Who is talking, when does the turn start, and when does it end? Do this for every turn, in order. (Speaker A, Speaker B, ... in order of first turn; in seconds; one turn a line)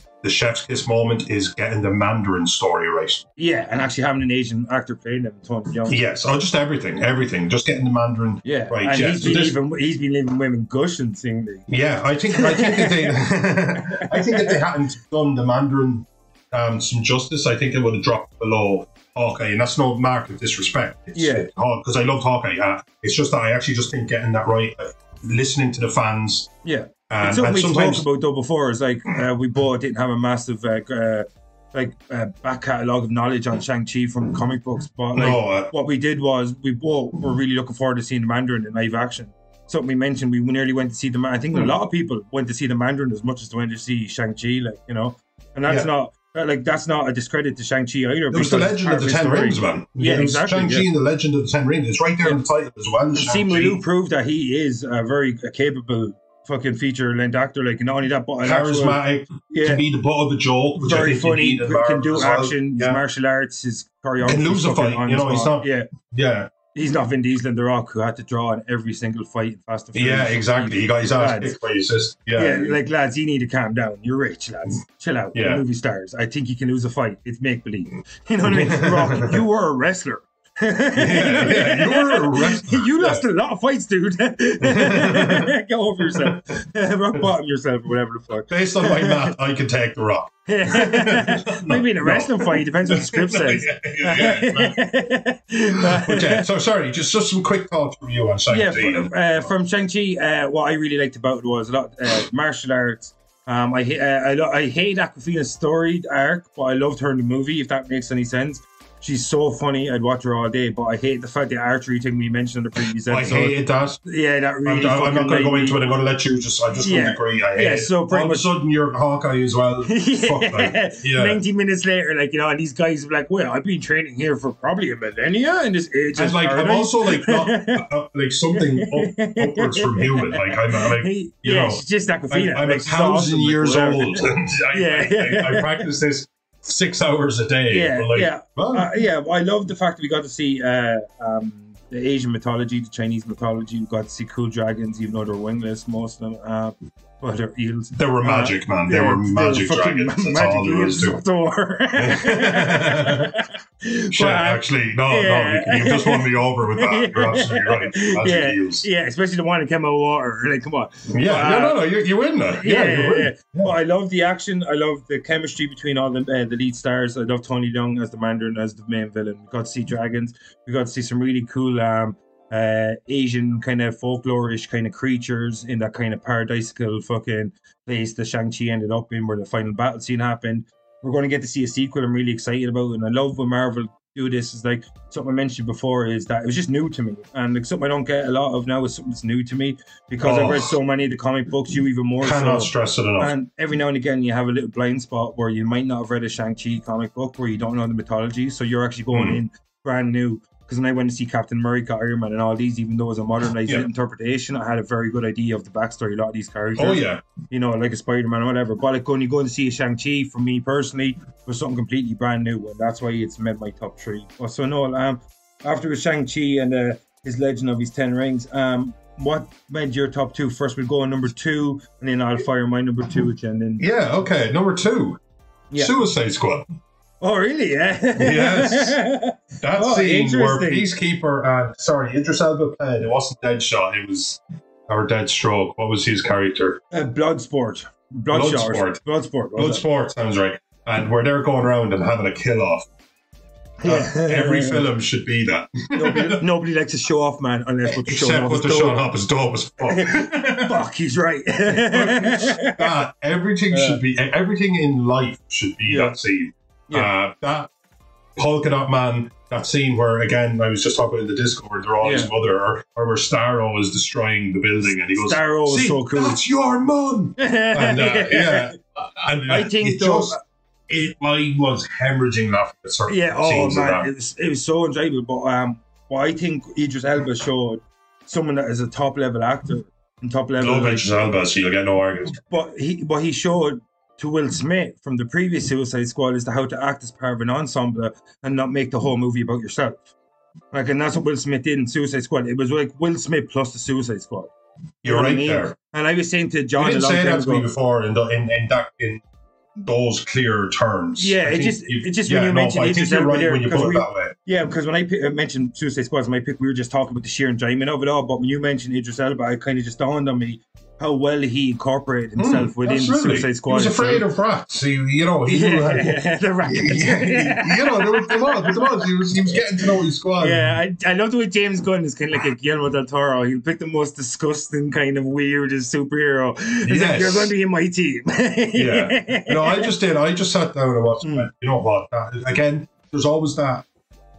Speaker A: 0.2-3.2
Speaker B: 3.4-6.0
Speaker A: 5.9-9.6
Speaker B: 8.4-11.7
Speaker A: 11.7-26.5
Speaker B: 12.3-13.2
Speaker B: 13.8-14.6
Speaker B: 21.1-21.5
Speaker B: 26.6-50.9
Speaker A: 27.1-28.1
Speaker A: 35.1-35.7
Speaker A: 48.3-53.8
Speaker B: 53.1-59.8
Speaker A: 58.4-63.0
Speaker B: 60.8-65.9
Speaker A: 64.2-66.5
Speaker B: 66.7-71.5
Speaker A: 70.0-72.8
Speaker B: 72.3-89.3
Speaker A: 75.3-75.6
Speaker A: 78.5-79.4
Speaker A: 81.0-83.2
Speaker A: 84.6-86.4
Speaker A: 88.5-94.8
Speaker B: 90.5-96.5
Speaker A: 95.8-99.5
Speaker B: 98.5-115.8
Speaker A: 113.1-114.0
Speaker A: 114.7-121.4
Speaker B: 116.8-118.5
Speaker B: 119.8-127.8
Speaker A: 126.2-138.9
Speaker B: 128.5-135.9
Speaker B: 137.7-161.8
Speaker A: 148.0-151.2
Speaker A: 152.0-153.4
Speaker A: 154.1-158.9
Speaker A: 161.1-163.7
Speaker B: 162.6-223.8
Speaker A: 190.2-190.7
Speaker A: 192.2-193.3
Speaker A: 199.1-199.4
Speaker A: 206.8-207.2
Speaker A: 223.8-225.2
Speaker B: 225.7-226.0
Speaker A: 225.8-226.7
Speaker B: 227.2-230.9
Speaker A: 228.2-229.0
Speaker A: 229.6-236.8
Speaker B: 236.9-239.8
Speaker A: 238.3-239.0
Speaker A: 239.6-242.9
Speaker B: 243.8-244.8
Speaker A: 243.8-246.4
Speaker B: 245.9-249.0
Speaker A: 247.9-250.8
Speaker B: 249.8-252.9
Speaker A: 251.7-257.7
Speaker B: 253.7-254.0
Speaker B: 255.9-256.2
Speaker A: 258.4-270.4
Speaker B: 262.0-262.3
Speaker B: 264.9-266.4
Speaker B: 267.4-268.8
Speaker B: 269.5-270.4
Speaker A: 270.9-274.1
Speaker B: 273.1-281.1
Speaker A: 280.6-282.4
Speaker B: 282.4-290.1
Speaker B: 290.7-294.5
Speaker A: 295.0-295.8
Speaker B: 295.1-297.7
Speaker A: 296.8-299.2
Speaker A: 299.8-304.3
Speaker B: 301.2-314.2
Speaker A: 312.4-320.7
Speaker B: 315.5-319.6
Speaker B: 320.4-329.9
Speaker A: 326.9-327.5
Speaker A: 328.8-333.9
Speaker B: 331.2-331.5